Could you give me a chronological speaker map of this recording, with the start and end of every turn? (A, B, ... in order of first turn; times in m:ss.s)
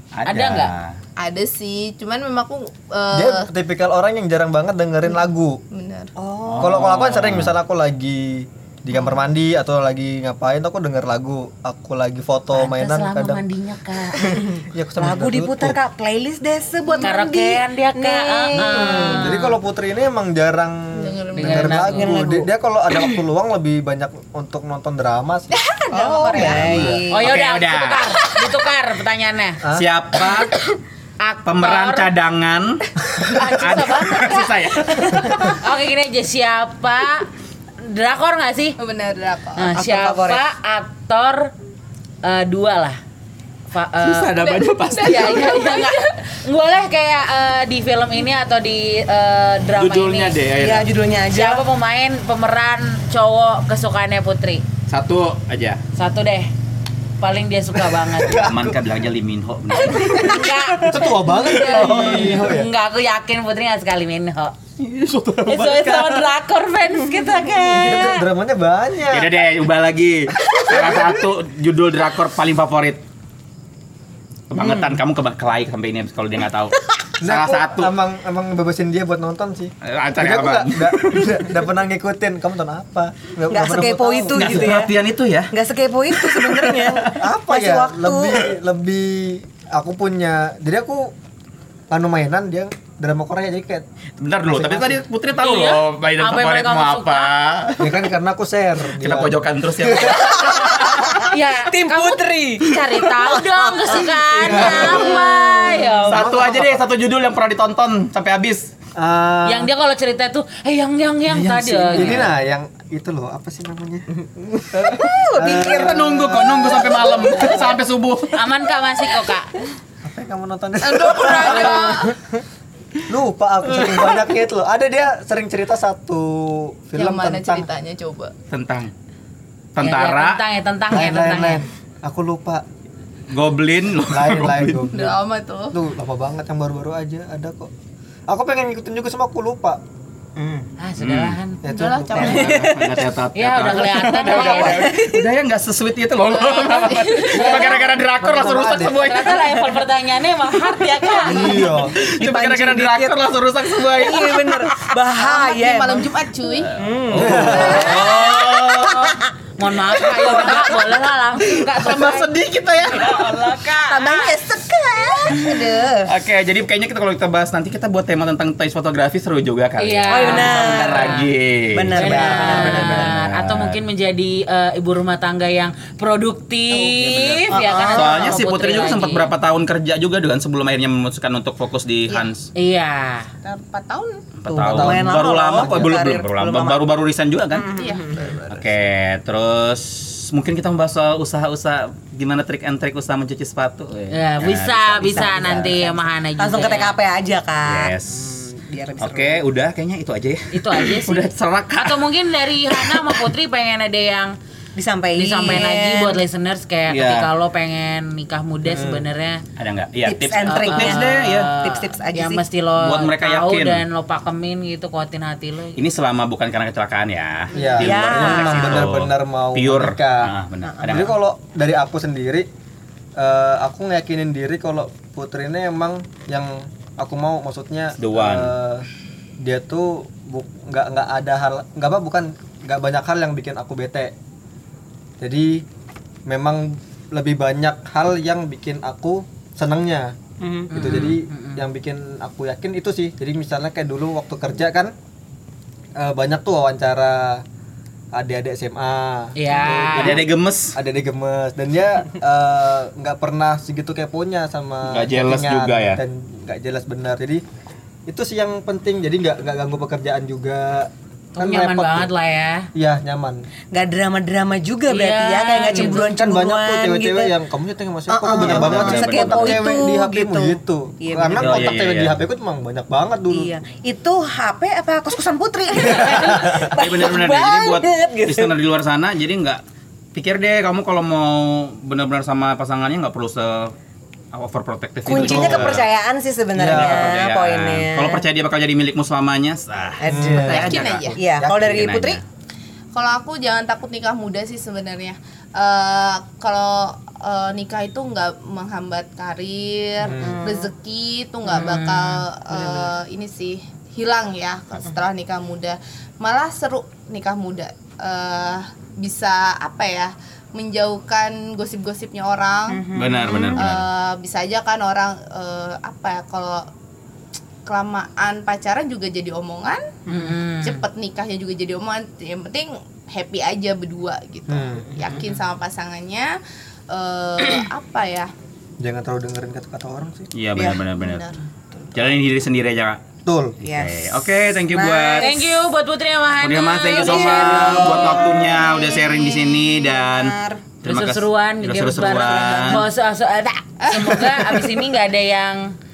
0:00.2-0:01.0 A
0:00.2-0:00.7 B
0:01.2-0:03.5 C
0:03.1-0:05.6 D
0:05.7-0:06.1 C
0:06.2-0:06.8 E
0:06.4-0:07.6 A
0:06.6-0:13.4 D
0:12.5-0:14.4 B
0:14.2-0:19.4 E
0:14.3-0:15.8 D
0:16.8-0:17.1 C
0:17.0-0:19.5 B
0:18.6-0:25.6 D
0:20.9-0:21.9 C
0:21.4-0:22.2 B
0:21.9-0:23.1 E
0:25.5-0:27.3 E
0:25.9-0:26.9 C
0:26.3-0:27.0 D
0:26.5-0:28.0 A
0:27.1-0:29.6 B
0:29.7-0:30.6 A
0:31.2-0:32.1 B
0:31.4-0:35.6 A
0:33.2-0:37.3 B
0:37.8-0:38.8 B
0:38.8-0:39.7 C
0:39.6-0:41.5 B
0:39.7-0:40.4 E
0:42.2-0:43.0 B
0:43.7-0:44.4 B
0:44.0-0:45.4 A
0:44.4-0:46.1 C
0:44.9-0:50.4 B
0:49.8-0:50.9 A
0:50.6-0:51.6 E
0:51.3-0:54.6 B
0:54.9-0:55.8 A
0:55.9-0:56.5 B
0:57.2-0:58.5 B
0:58.0-0:58.8 D
0:58.4-1:02.3 A
0:59.9-1:04.5 B
1:00.8-1:02.7 D
1:01.6-1:02.0 C
1:04.8-1:06.3 A
1:05.4-1:08.2 B
1:07.1-1:08.1 E
1:07.8-1:09.3 D
1:09.1-1:13.0 A
1:14.5-1:17.9 A
1:14.6-1:14.9 E
1:17.2-1:24.7 D
1:19.8-1:21.5 A
1:23.5-1:25.0 E
1:24.3-1:25.5 A
1:25.5-1:28.4 E
1:26.1-1:27.2 A
1:27.2-1:31.1 D
1:31.9-1:33.8 D
1:34.2-1:38.0 A
1:34.5-1:35.0 D
1:35.4-1:37.3 B
1:37.8-1:40.3 D
1:39.0-1:41.3 A
1:40.4-1:45.9 E
1:41.2-1:46.2 B
1:44.4-1:45.0 D
1:44.5-1:45.1 A
1:46.0-1:46.8 D
1:46.1-1:48.7 A
1:49.0-1:49.7 D
1:49.4-1:52.3 B
1:51.3-1:54.1 D
1:51.9-1:52.3 A
1:54.6-1:57.5 D
1:54.6-1:57.6 E
1:55.5-1:58.4 A
1:58.3-1:59.6 B
2:00.0-2:02.1 D
2:00.8-2:02.2 C
2:03.1-2:07.7 D
2:07.0-2:08.3 C
2:08.5-2:08.9 A
2:09.8-2:10.4 A
2:09.8-2:11.6 B
2:10.9-2:12.6 D
2:13.3-2:14.9 A
2:14.1-2:15.2 D
2:14.9-2:15.7 C
2:15.7-2:17.7 D
2:18.3-2:19.8 D
2:20.4-2:20.7 E
2:20.8-2:21.6 B
2:21.0-2:21.4 A
2:21.6-2:22.6 D
2:21.6-2:22.7 C
2:22.2-2:29.5 A
2:22.2-2:23.0 E
2:23.3-2:24.9 B
2:24.2-2:25.3 E
2:26.2-2:27.9 C
2:27.3-2:27.9 B
2:28.2-2:29.0 D
2:28.9-2:31.7 B
2:29.3-2:29.6 E
2:31.2-2:32.0 D
2:31.4-2:36.0 E
2:31.7-2:34.6 A
2:35.1-2:36.8 C
2:36.7-2:39.3 E
2:37.1-2:39.2 A
2:37.1-2:37.9 D
2:37.6-2:38.1 C
2:37.6-2:38.6 B
2:39.6-2:44.3 B
2:39.9-2:43.5 A
2:43.8-2:46.1 E
2:46.0-2:53.8 A
2:49.8-2:51.3 B
2:50.1-2:51.2 E
2:51.7-2:53.2 E
2:52.0-2:59.3 B
2:52.0-2:53.0 D
2:56.7-3:02.5 A
2:57.5-2:58.4 E
3:02.5-3:03.3 B
3:03.4-3:04.2 C
3:04.4-3:07.7 A
3:04.5-3:06.8 E
3:04.6-3:06.0 D
3:07.6-3:08.0 E
3:07.7-3:08.7 C
3:08.5-3:15.3 A
3:14.1-3:17.0 B
3:15.0-3:19.4 E
3:17.6-3:18.4 A
3:19.0-3:22.0 A
3:20.5-3:21.2 B
3:21.8-3:24.3 B
3:22.8-3:23.2 A
3:24.8-3:26.2 E
3:25.2-3:29.4 B
3:26.9-3:27.3 A
3:28.6-3:29.1 D
3:29.6-3:31.5 A
3:30.0-3:32.4 E
3:30.5-3:35.8 B
3:32.8-3:33.8 A
3:35.8-3:41.2 A
3:37.5-3:40.3 D
3:37.6-3:38.8 E
3:40.6-3:41.0 E
3:40.8-3:42.4 D
3:43.2-3:48.8 D
3:48.0-3:48.5 A
3:49.4-3:54.1 D
3:55.2-3:55.6 D
3:56.3-4:00.1 D
4:00.4-4:00.7 E
4:00.7-4:01.6 B
4:00.7-4:04.9 D
4:06.0-4:07.4 D
4:08.1-4:17.4 D
4:09.4-4:10.2 B
4:10.0-4:10.8 A
4:14.9-4:16.0 A
4:18.1-4:22.1 D
4:21.4-4:22.7 B
4:22.7-4:23.4 D
4:23.7-4:27.3 E
4:24.9-4:26.0 B
4:25.7-4:33.5 D
4:28.1-4:31.6 E
4:28.3-4:29.7 A
4:31.4-4:32.2 A
4:33.3-4:38.5 E
4:36.0-4:36.7 D
4:36.3-4:39.6 A
4:40.1-4:43.7 A
4:44.3-4:45.8 A
4:45.1-4:48.2 E
4:45.1-4:45.8 D
4:46.5-4:47.2 D
4:46.6-4:52.2 A
4:50.0-4:52.2 E
4:50.0-4:51.8 D
4:50.3-4:51.2 C
4:52.9-5:12.9 C
5:00.0-5:00.4 D
5:00.2-5:00.7 E
5:01.5-5:02.2 B
5:02.5-5:02.9 E
5:12.7-5:13.6 E
5:12.9-5:13.9 A
5:13.6-5:16.7 C
5:17.6-5:20.0 C
5:20.1-5:20.8 B
5:20.6-5:26.3 C
5:24.5-5:25.0 D
5:26.9-5:28.3 C
5:28.8-5:30.3 D
5:30.3-5:31.2 A
5:30.5-5:30.8 E
5:30.9-5:31.4 C
5:31.9-5:33.0 A
5:33.2-5:33.6 D
5:33.6-5:34.0 E
5:33.7-5:35.3 A
5:34.7-5:35.4 E
5:35.2-5:38.2 B
5:36.4-5:42.8 A
5:36.9-5:40.6 E
5:40.8-5:45.7 B
5:42.2-5:42.8 E
5:43.8-5:44.7 C